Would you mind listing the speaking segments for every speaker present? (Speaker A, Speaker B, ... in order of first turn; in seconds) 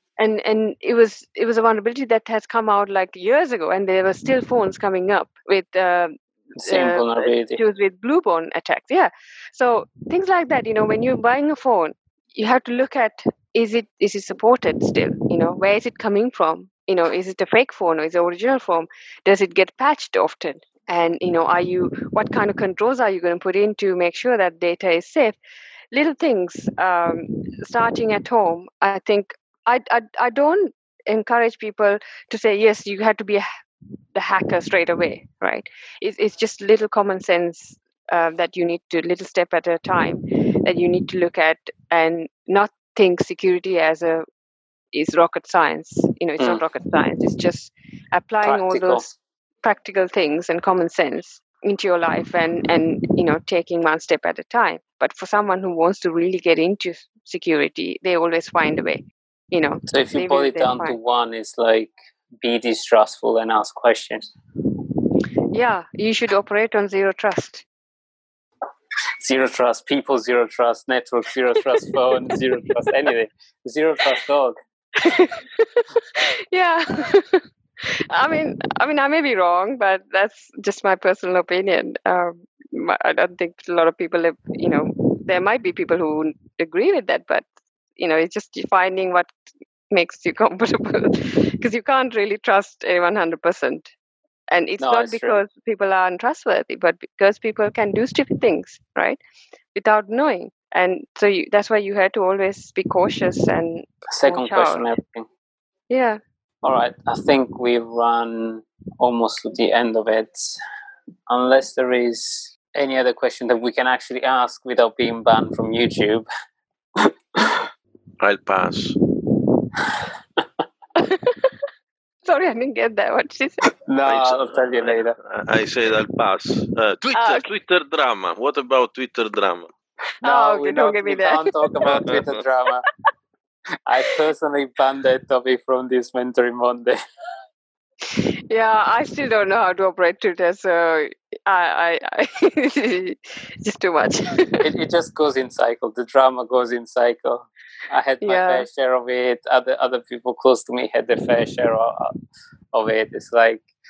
Speaker A: 0.2-25.4, 25.9-33.5, 34.1-44.2, 44.9-61.0, 65.5-67.7, 75.0-87.5, 88.0-89.3, 89.9-93.9, 94.5-99.2, 99.7-104.9, 105.9-106.2, 121.0-121.5, 122.2-123.6, 127.1-127.5, 130.2-131.5, 138.1-144.7, 148.2-148.7
Speaker B: 6.6-7.6, 48.4-49.1, 59.9-64.3, 69.2-74.6, 94.8-95.4, 104.1-105.3, 106.6-110.6, 111.3-116.3, 117.0-117.7, 123.9-125.2, 130.2-132.8, 133.9-137.0, 144.6-152.1, 152.7-153.7
Speaker C: 118.2-119.0, 124.0-129.7, 131.8-132.4